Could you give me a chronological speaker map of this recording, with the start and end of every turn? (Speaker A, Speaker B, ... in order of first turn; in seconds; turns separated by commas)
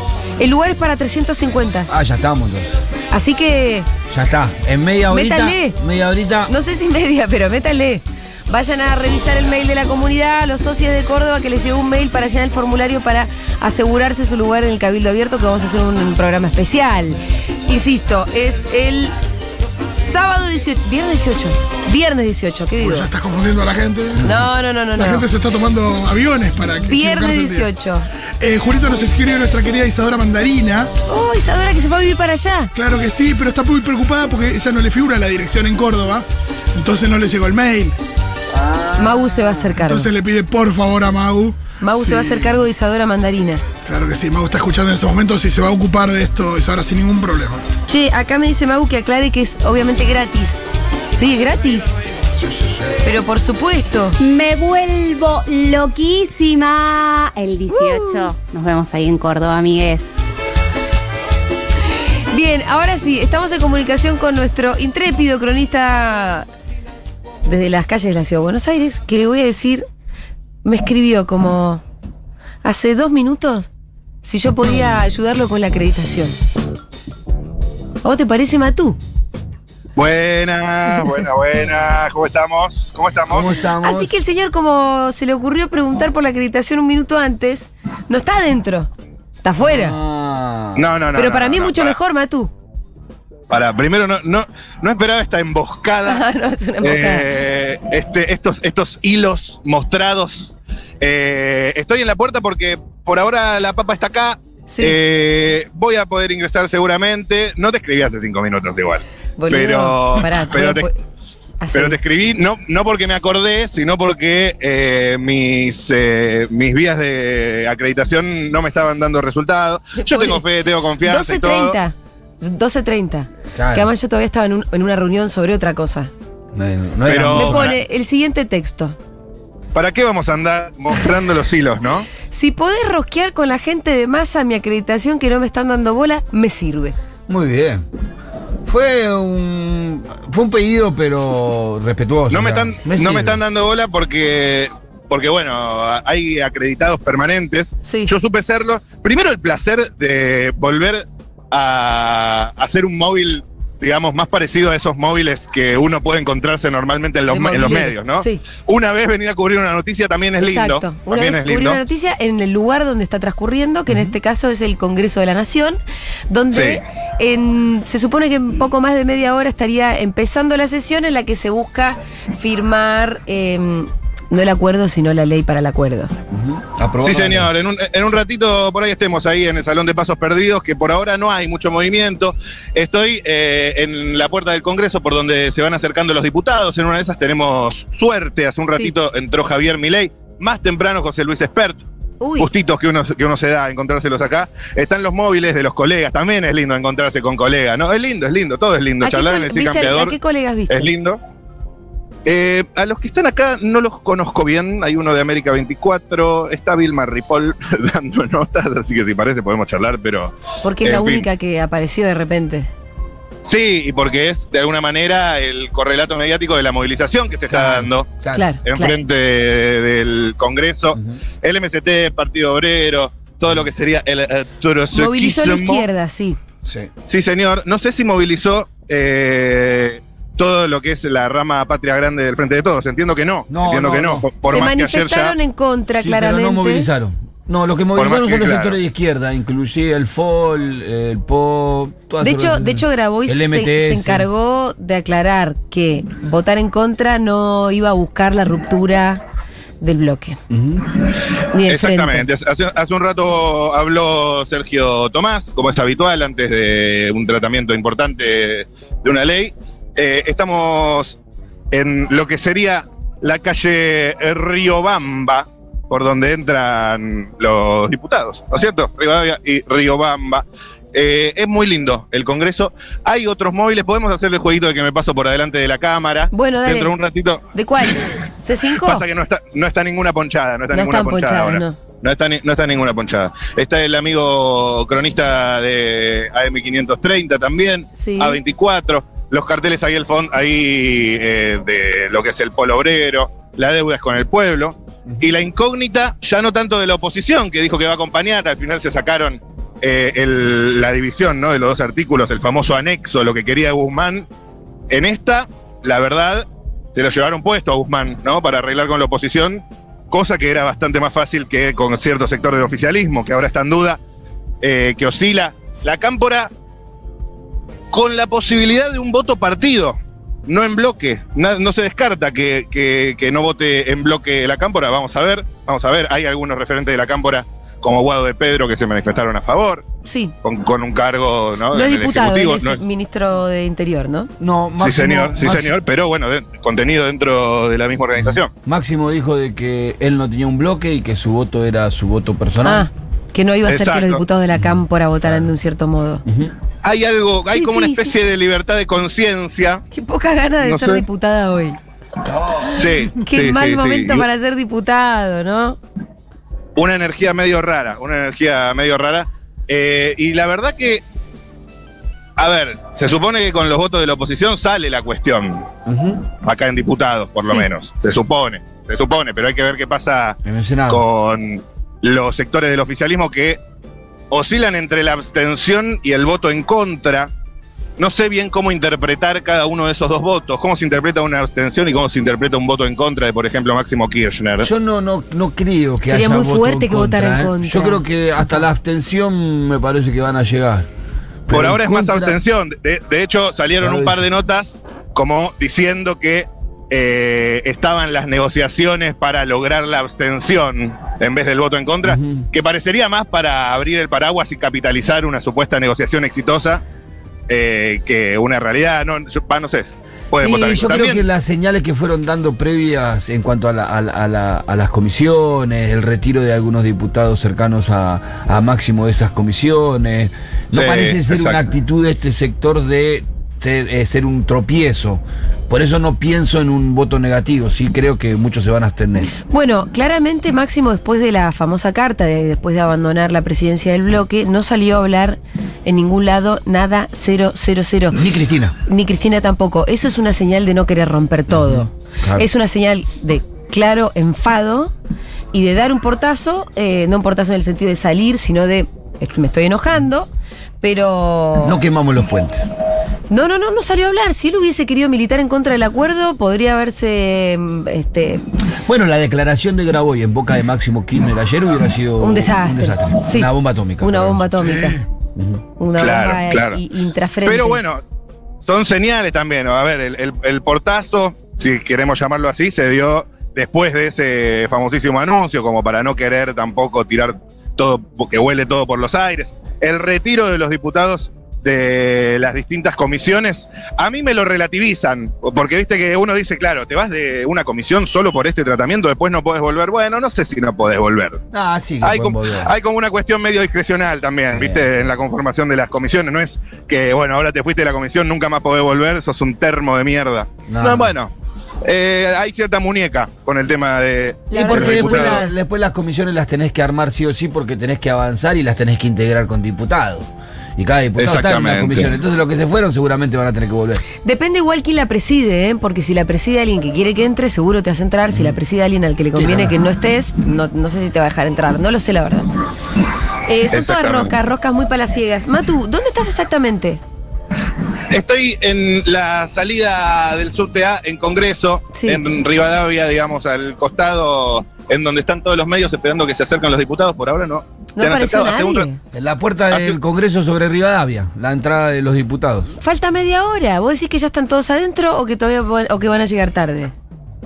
Speaker A: 0.4-1.9, Speaker B: 1.9-2.8, Speaker A: 3.1-3.9, Speaker B: 4.1-6.5, Speaker A: 5.1-5.8, Speaker A: 6.5-19.1, Speaker A: 19.9-23.1, Speaker C: 22.8-24.4, Speaker A: 24.2-25.3, Speaker C: 24.9-27.7, Speaker A: 26.9-28.1, Speaker C: 28.4-30.9, Speaker A: 31.1-32.7, Speaker C: 32.7-37.9, Speaker B: 38.5-39.6, Speaker A: 39.0-40.1, Speaker C: 39.8-42.6, Speaker A: 41.8-43.6, Speaker C: 43.8-47.6, Speaker A: 47.9-52.0, Speaker A: 53.0-54.1, Speaker D: 54.2-60.1, Speaker A: 57.7-58.3, Speaker A: 62.3-66.5, Speaker A: 67.4-69.8, Speaker A: 70.6-71.8, Speaker A: 72.6-73.7, Speaker A: 74.2-76.3, Speaker A: 78.0-79.0, Speaker E: 80.0-83.5, Speaker B: 83.3-84.2, Speaker A: 83.8-88.9, Speaker A: 89.4-90.0, Speaker B: 89.6-90.8, Speaker E: 90.7-92.0, Speaker A: 91.2-92.5, Speaker E: 93.5-96.2, Speaker A: 96.1-97.3, Speaker E: 96.8-110.9, Speaker A: 104.7-105.0, Speaker A: 109.4-110.9, Speaker A: 111.6-112.0, Speaker E: 111.7-121.8, Speaker A: 120.0-120.4, Speaker A: 121.0-126.1, Speaker B: 123.5-123.9, Speaker B: 126.5-127.7, Speaker E: 127.1-127.8, Speaker A: 127.3-128.9, Speaker E: 129.7-132.1, Speaker A: 132.3-136.9, Speaker B: 137.3-137.8, Speaker B: 138.6-143.4, Speaker E: 142.3-161.8, Speaker A: 147.8-148.1, Speaker A: 157.3-158.4, Speaker A: 160.4-176.1, Speaker E: 166.5-166.8, Speaker B: 176.3-177.5, Speaker E: 177.0-191.8, Speaker A: 192.2-192.5, Speaker E: 192.4-200.2, Speaker A: 199.0-200.9, Speaker E: 200.7-201.2, Speaker E: 202.2-211.3, Speaker A: 210.6-212.7, Speaker E: 213.4-225.9, Speaker B: 217.5-218.5, Speaker A: 218.3-218.9, Speaker B: 220.9-221.2, Speaker A: 224.9-226.4, Speaker B: 226.6-226.9, Speaker E: 227.1-235.3, Speaker B: 233.5-234.3, Speaker A: 234.4-236.9, Speaker B: 236.0-244.3, Speaker E: 237.9-238.8, Speaker A: 242.2-249.2, Speaker A: 249.8-250.4, Speaker B: 250.5-250.8, Speaker A: 251.5-252.2, Speaker E: 251.7-261.2, Speaker E: 261.7-277.9, Speaker A: 276.3-276.9, Speaker A: 277.5-279.0, Speaker E: 278.8-304.3, Speaker A: 280.7-281.8, Speaker A: 288.0-288.4, Speaker E: 304.9-314.0, Speaker E: 314.6-316.5, Speaker E: 317.9-329.8, Speaker A: 330.1-330.3, Speaker E: 330.4-332.8, Speaker A: 331.7-334.3, Speaker B: 334.4-335.8, Speaker E: 334.8-338.5, Speaker B: 338.2-342.9, Speaker A: 342.6-346.2, Speaker E: 343.6-344.2, Speaker B: 344.5-345.5, Speaker B: 346.2-346.5, Speaker E: 346.8-349.8, Speaker A: 347.5-348.1, Speaker A: 349.9-351.8, Speaker E: 350.6-351.0, Speaker B: 352.2-352.9, Speaker E: 352.7-354.2, Speaker A: 353.2-355.8, Speaker E: 356.8-361.0, Speaker E: 362.4-365.7, Speaker B: 365.9-366.2, Speaker E: 366.4-373.6, Speaker B: 370.4-371.0, Speaker E: 374.3-377.3, Speaker E: 378.0-384.7, Speaker B: 384.6-390.9, Speaker A: 386.1-388.0, Speaker B: 391.5-392.3, Speaker E: 391.5-406.8, Speaker B: 393.8-394.2, Speaker B: 402.0-402.4, Speaker E: 407.5-411.2, Speaker B: 410.4-429.3, Speaker E: 420.7-421.6, Speaker A: 429.5-438.2, Speaker B: 438.1-438.7, Speaker A: 438.9-444.9, Speaker B: 441.5-442.5, Speaker A: 445.5-450.3, Speaker A: 450.8-451.8, Speaker B: 451.6-452.6, Speaker A: 453.3-458.4, Speaker B: 458.8-464.5, Speaker A: 462.2-465.0, Speaker C: 464.6-465.0, Speaker B: 465.3-465.6, Speaker A: 465.8-467.8, Speaker E: 466.0-466.8, Speaker E: 467.4-468.0, Speaker E: 468.6-491.4, Speaker B: 491.5-492.7, Speaker E: 492.0-501.3, Speaker B: 494.5-494.9, Speaker B: 500.7-501.1, Speaker E: 501.8-505.4, Speaker A: 504.5-505.5, Speaker B: 504.5-514.0, Speaker E: 511.2-512.1, Speaker A: 514.2-522.5, Speaker B: 519.3-519.7, Speaker A: 523.5-527.0, Speaker E: 523.7-524.4, Speaker E: 528.1-538.9, Speaker A: 531.9-532.2, Speaker A: 538.0-539.0, Speaker B: 539.1-542.7, Speaker E: 539.7-540.0, Speaker A: 542.8-546.9